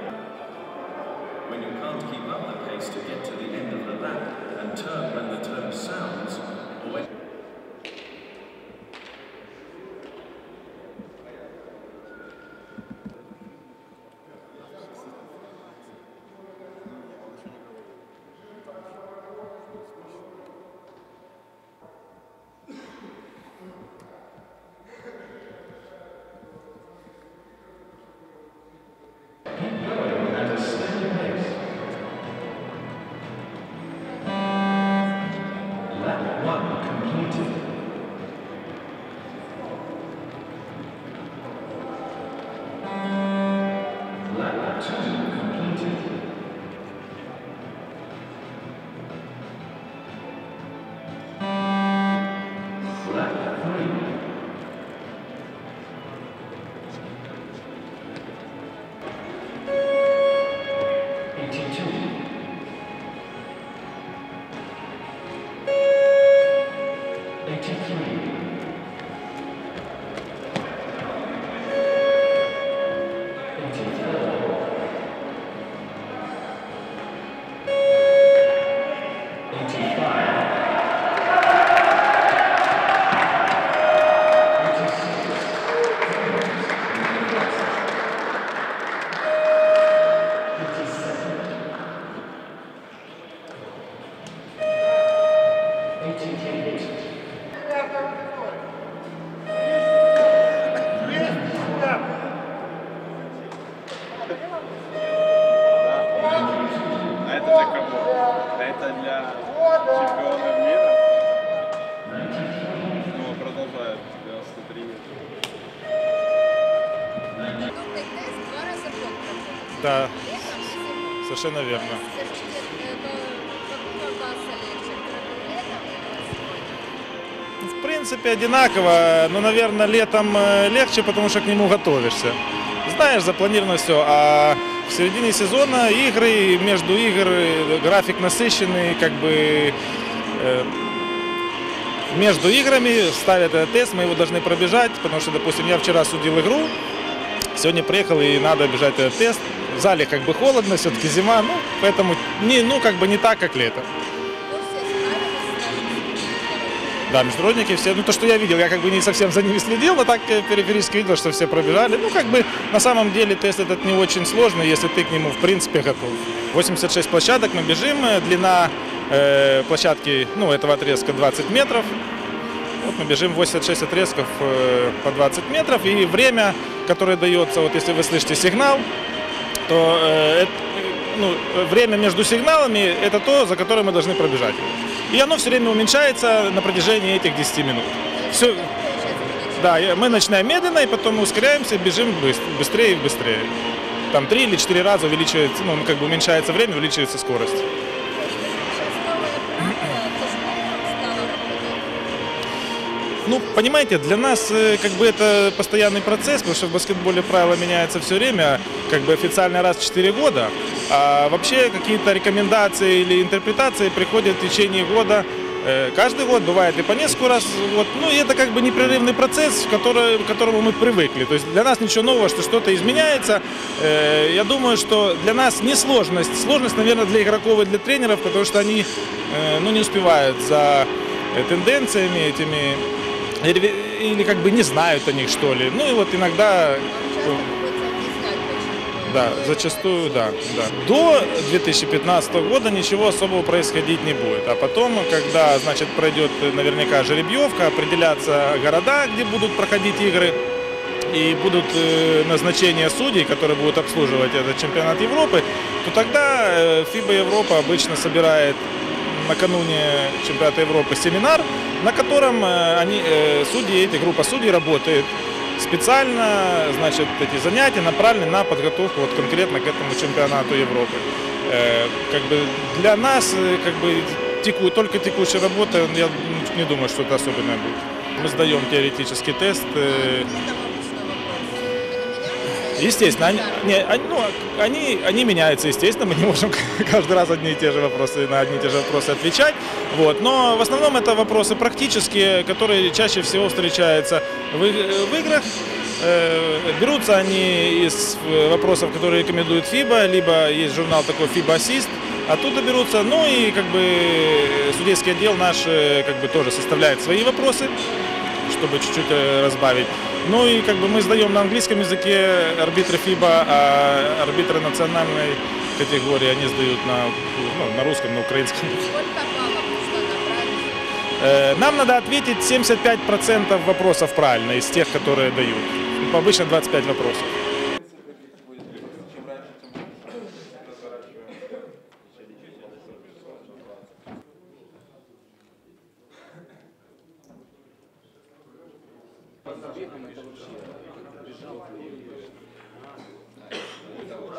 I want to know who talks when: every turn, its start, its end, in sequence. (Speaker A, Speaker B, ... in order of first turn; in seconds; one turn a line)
Speaker A: 1.4-6.4
Speaker A: 30.2-31.3
Speaker A: 36.4-37.3
Speaker B: 105.8-106.6
Speaker B: 107.1-111.0
Speaker B: 113.0-115.2
Speaker C: 117.5-121.2
Speaker D: 119.7-120.1
Speaker D: 121.2-122.0
Speaker C: 121.7-127.1
Speaker D: 127.6-139.8
Speaker D: 140.3-140.7
Speaker D: 142.1-146.7
Speaker D: 147.5-153.9
Speaker C: 154.4-157.3
Speaker D: 157.1-171.9
Speaker D: 172.8-178.8
Speaker D: 179.7-188.7
Speaker C: 188.1-190.3
Speaker D: 189.6-193.5
Speaker D: 194.1-197.7
Speaker C: 198.1-201.9
Speaker C: 203.2-203.6
Speaker D: 203.2-232.8
Speaker D: 233.4-237.4
Speaker C: 236.3-240.9
Speaker D: 239.1-250.3
Speaker D: 251.1-280.3
Speaker C: 279.8-283.8
Speaker D: 282.8-307.7
Speaker D: 308.5-318.8
Speaker C: 318.8-321.1
Speaker D: 321.2-327.3
Speaker B: 328.1-329.8